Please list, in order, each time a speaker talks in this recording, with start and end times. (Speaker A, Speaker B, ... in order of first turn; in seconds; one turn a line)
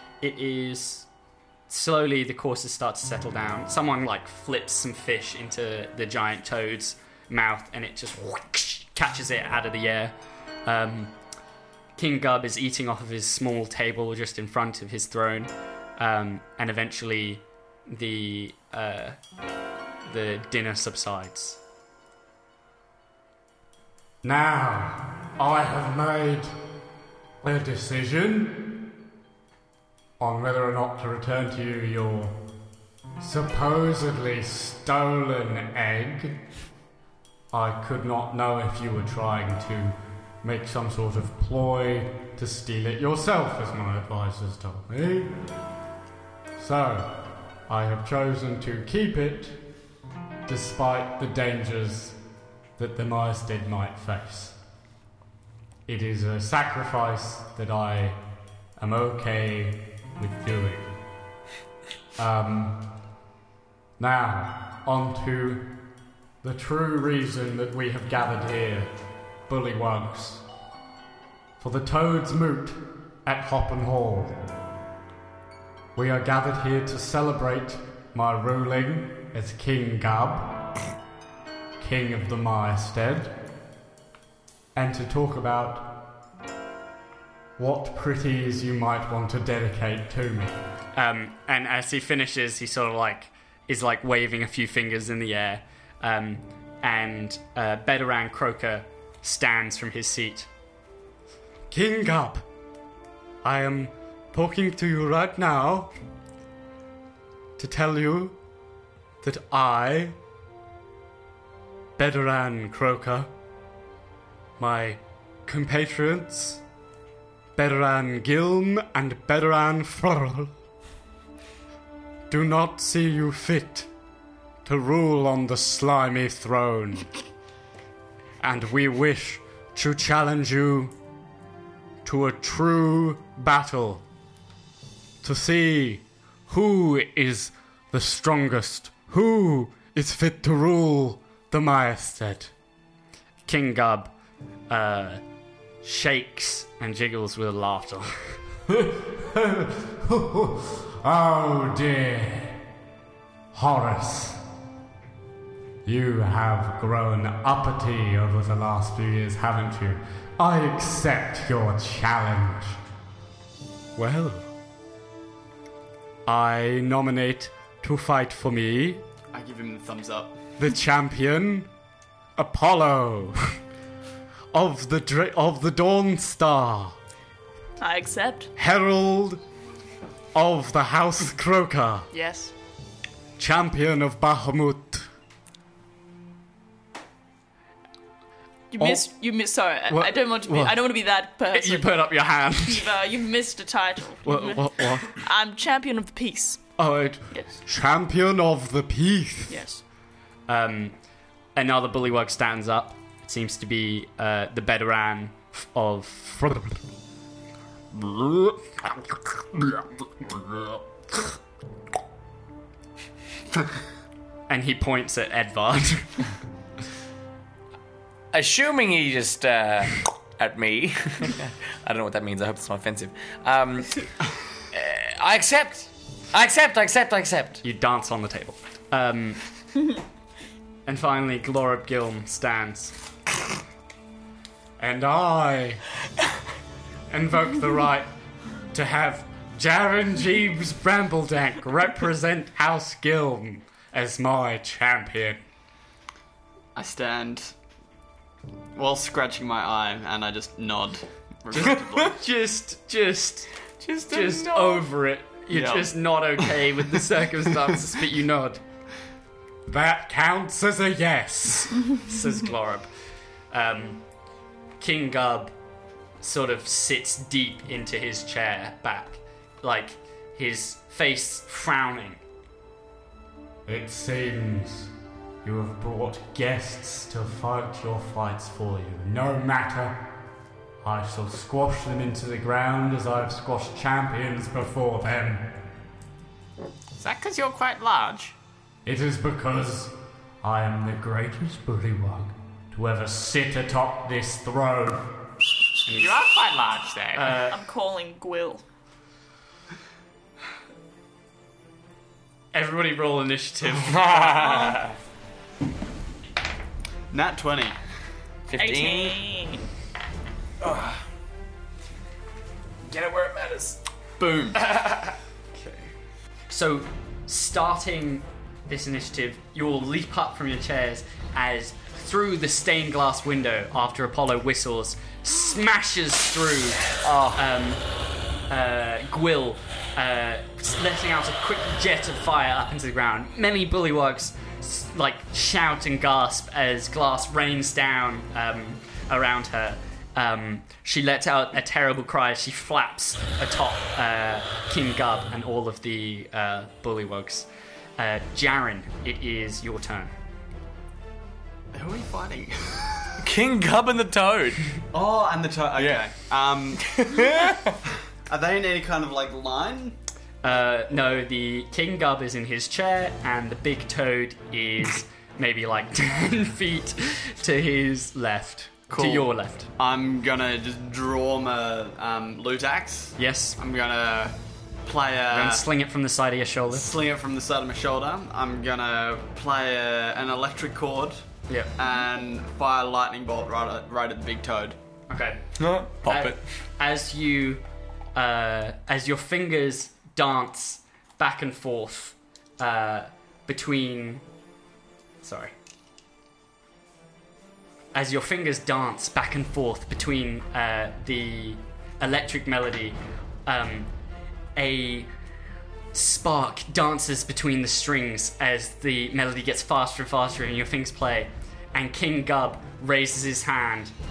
Speaker A: 0.2-1.1
Speaker A: 1.7-11.2
Speaker A: 12.0-19.2
Speaker A: 20.1-21.6
Speaker B: 24.2-26.6
Speaker B: 27.4-28.9
Speaker B: 30.2-32.4
Speaker B: 33.2-36.4
Speaker B: 37.5-45.4
Speaker B: 46.6-49.6
Speaker B: 50.5-52.2
Speaker B: 52.8-54.5
Speaker B: 55.9-58.2
Speaker B: 58.8-60.9
Speaker B: 62.2-62.8
Speaker B: 64.0-65.8
Speaker B: 66.4-68.9
Speaker B: 69.5-70.4
Speaker B: 71.6-74.5
Speaker B: 76.0-80.7
Speaker B: 81.8-83.3
Speaker B: 84.8-86.1
Speaker B: 87.6-90.6
Speaker A: 91.0-100.5
Speaker B: 101.7-102.5
Speaker B: 103.4-105.9
Speaker B: 107.6-108.4
Speaker B: 109.2-110.2
Speaker B: 112.0-113.3
Speaker B: 114.6-116.6
Speaker B: 117.6-120.5
Speaker B: 122.3-123.9
Speaker B: 124.7-127.1
Speaker B: 128.4-130.9
Speaker B: 132.1-134.0
Speaker B: 135.2-142.5
Speaker A: 143.5-144.1
Speaker A: 144.7-145.2
Speaker A: 145.8-148.4
Speaker B: 148.7-152.6
Speaker B: 153.5-154.4
Speaker B: 155.8-162.8
Speaker B: 164.0-164.5
Speaker B: 166.3-169.0
Speaker C: 169.4-170.3
Speaker B: 170.6-171.7
Speaker B: 172.4-173.6
Speaker B: 174.5-177.0
Speaker D: 177.8-178.5
Speaker B: 178.6-179.4
Speaker B: 180.3-182.1
Speaker D: 182.2-182.5
Speaker B: 183.4-185.1
Speaker D: 188.7-196.7
Speaker B: 189.9-190.7
Speaker B: 191.6-192.7
Speaker B: 194.2-195.0
Speaker B: 196.8-199.6
Speaker D: 197.3-197.6
Speaker D: 199.5-199.8
Speaker A: 200.5-200.9
Speaker A: 201.6-206.5
Speaker B: 206.4-206.8
Speaker B: 207.9-208.9
Speaker B: 209.6-209.8
Speaker B: 210.4-210.7
Speaker A: 214.5-216.3
Speaker E: 218.3-224.1
Speaker E: 224.7-227.6
Speaker A: 227.6-229.4
Speaker A: 230.9-232.9
Speaker B: 234.8-235.8
Speaker B: 237.1-238.1
Speaker B: 238.7-245.4
Speaker C: 246.8-247.5
Speaker C: 248.8-252.2
Speaker A: 251.5-253.5
Speaker E: 253.8-254.8
Speaker A: 254.1-258.6
Speaker C: 255.5-256.5
Speaker B: 259.7-261.8
Speaker A: 262.1-262.9
Speaker A: 263.5-264.0
Speaker A: 264.8-265.6
Speaker A: 266.2-272.2
Speaker B: 273.7-274.9
Speaker B: 275.4-280.0
Speaker B: 280.8-285.6
Speaker F: 287.0-288.4
Speaker B: 288.9-295.2
Speaker A: 295.9-296.1
Speaker F: 295.9-297.4
Speaker A: 297.1-297.6
Speaker D: 297.5-298.6
Speaker A: 302.5-304.8
Speaker E: 303.8-304.9
Speaker C: 307.1-307.8
Speaker E: 308.5-309.2
Speaker D: 308.6-309.7
Speaker E: 310.6-310.9
Speaker E: 312.9-313.8
Speaker C: 314.2-314.6
Speaker A: 315.6-315.9
Speaker A: 316.5-327.8
Speaker E: 327.0-327.4
Speaker A: 328.5-347.5
Speaker A: 348.0-350.1
Speaker C: 351.8-353.1
Speaker E: 353.2-354.7
Speaker C: 354.9-356.9
Speaker E: 355.8-356.1
Speaker E: 356.8-357.8
Speaker C: 358.3-360.0
Speaker A: 360.4-369.7
Speaker C: 368.9-375.7
Speaker A: 373.2-373.6
Speaker A: 375.3-376.9
Speaker C: 376.7-381.2
Speaker A: 381.5-381.7
Speaker C: 381.8-384.8
Speaker A: 385.1-387.6
Speaker E: 385.6-386.4
Speaker A: 388.1-394.2
Speaker A: 395.2-395.5
Speaker A: 397.9-403.9
Speaker A: 404.6-405.1
Speaker A: 405.9-413.9